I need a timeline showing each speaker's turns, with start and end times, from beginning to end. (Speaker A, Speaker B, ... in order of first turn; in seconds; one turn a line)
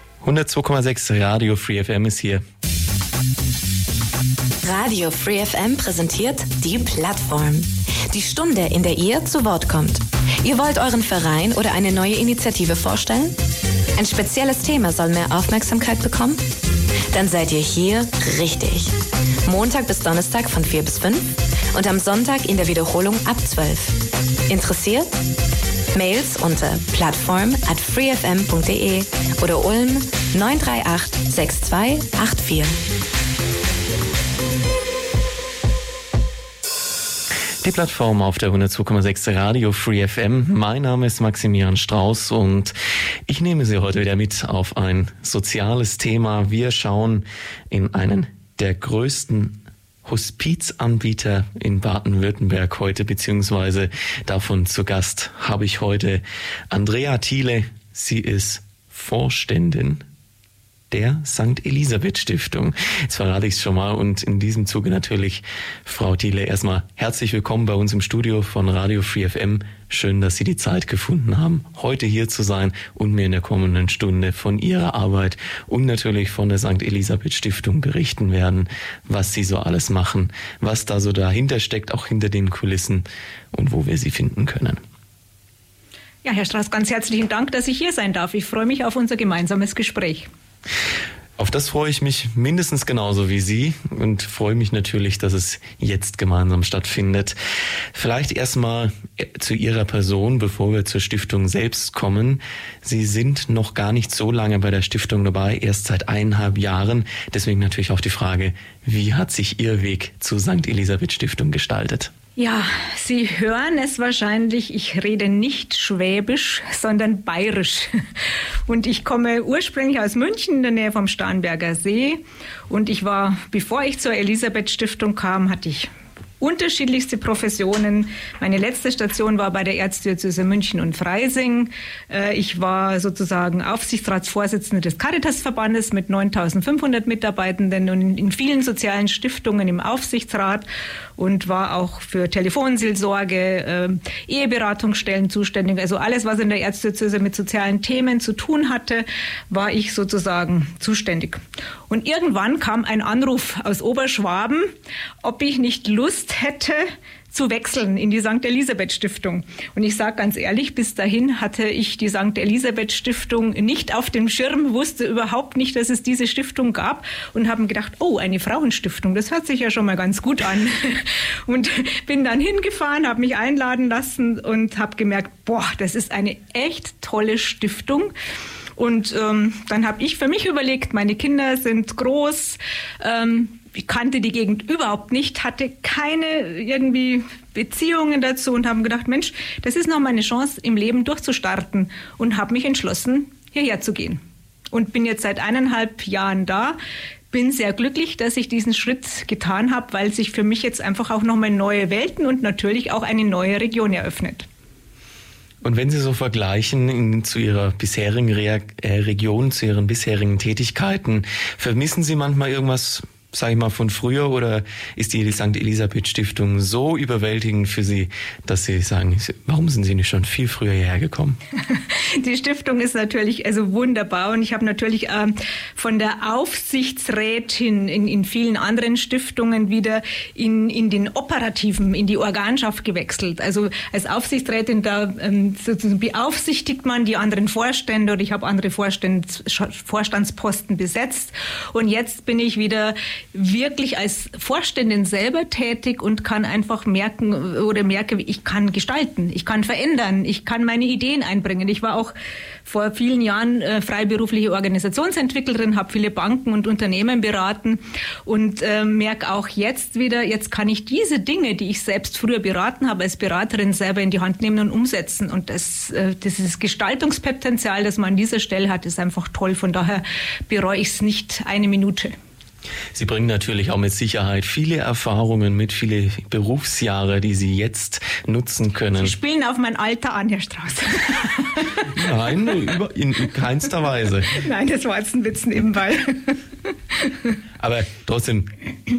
Speaker A: 0.2-2.4
Speaker B: 4.6-13.3
Speaker B: 14.0-16.4
Speaker B: 17.1-18.9
Speaker B: 19.4-23.9
Speaker B: 24.5-25.1
Speaker B: 25.9-32.7
Speaker A: 37.6-42.7
Speaker A: 43.3-60.0
Speaker A: 60.9-84.8
Speaker C: 86.2-90.3
Speaker A: 91.4-97.3
Speaker A: 97.9-112.1
Speaker C: 112.4-118.0
Speaker C: 118.7-178.1
Speaker C: 178.8-196.8
Speaker C: 197.3-204.5
Speaker A: 205.6-221.4
Speaker C: 221.7-252.1
Speaker C: 252.6-272.1
Speaker A: 272.9-279.1
Speaker C: 278.9-281.9
Speaker A: 281.8-284.4
Speaker C: 284.3-286.4
Speaker A: 287.6-288.5